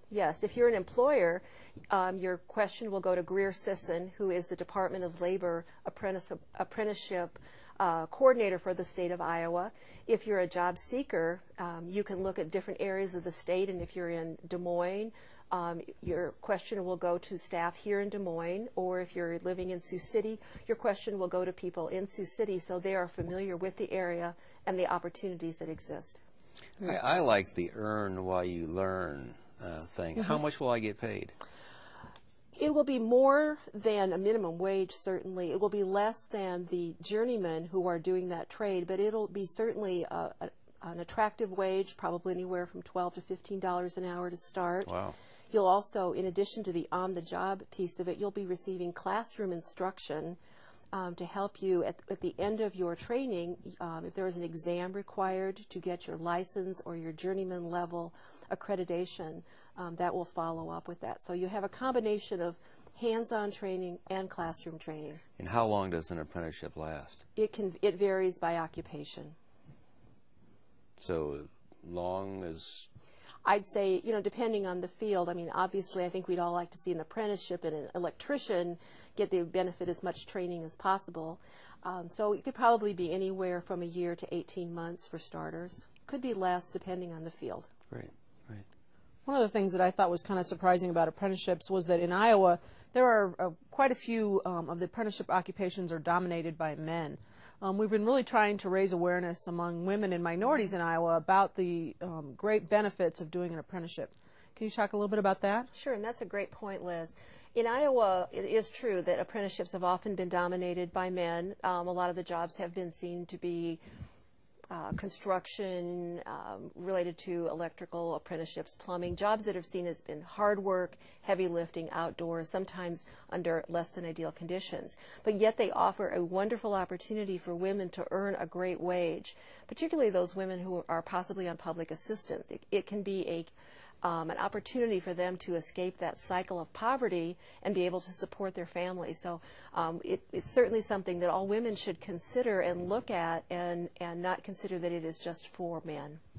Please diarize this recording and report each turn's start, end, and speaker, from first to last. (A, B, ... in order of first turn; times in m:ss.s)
0:00.1-0:26.2 A
0:26.8-0:31.3 B
0:32.6-0:44.9 A
0:44.8-0:45.2 B
0:45.5-0:50.4 A
0:50.9-1:05.2 A
1:05.4-1:07.2 B
1:07.4-1:09.4 A
1:11.0-1:12.9 B
1:13.4-1:27.7 A
1:27.9-1:28.7 B
1:29.3-1:45.7 C
1:45.7-1:53.8 A
1:54.7-2:26.2 A